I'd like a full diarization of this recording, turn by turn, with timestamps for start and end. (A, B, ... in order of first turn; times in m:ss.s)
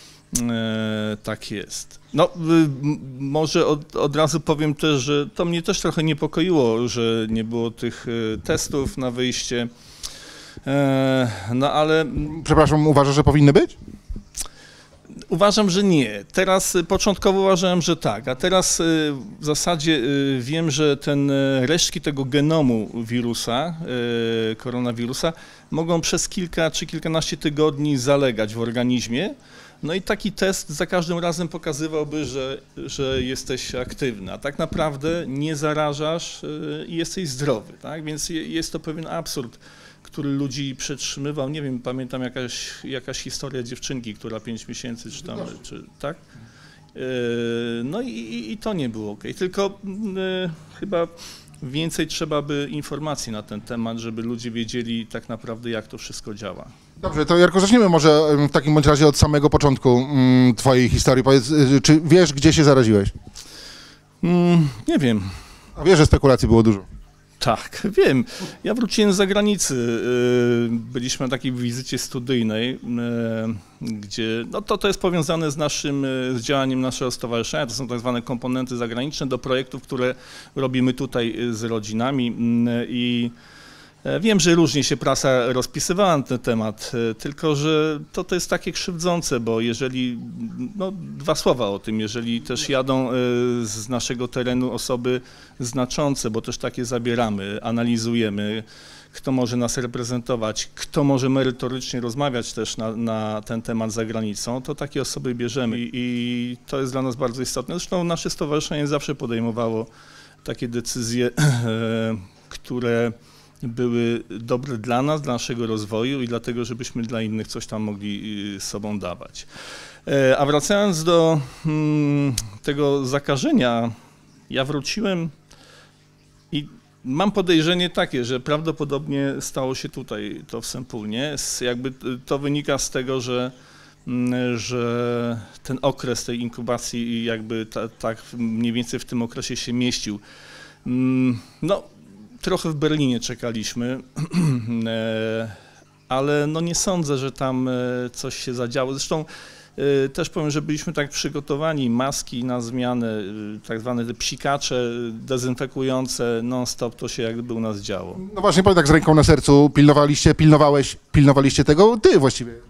0:00.3-0:09.7 A
0:10.6-0:12.4 A
0:12.2-0:13.8 B
0:15.3-0:46.2 A
0:46.9-0:56.7 A
0:57.0-1:03.1 B
1:04.2-1:05.4 A
1:05.8-1:06.8 B
1:07.4-1:23.3 A
1:24.0-1:49.9 A
1:50.4-1:59.5 A
2:00.0-2:03.9 A
2:04.5-2:05.3 A
2:06.5-2:13.5 A
2:14.0-2:20.2 A
2:20.8-2:21.9 A
2:22.4-2:38.2 A
2:38.2-2:42.6 B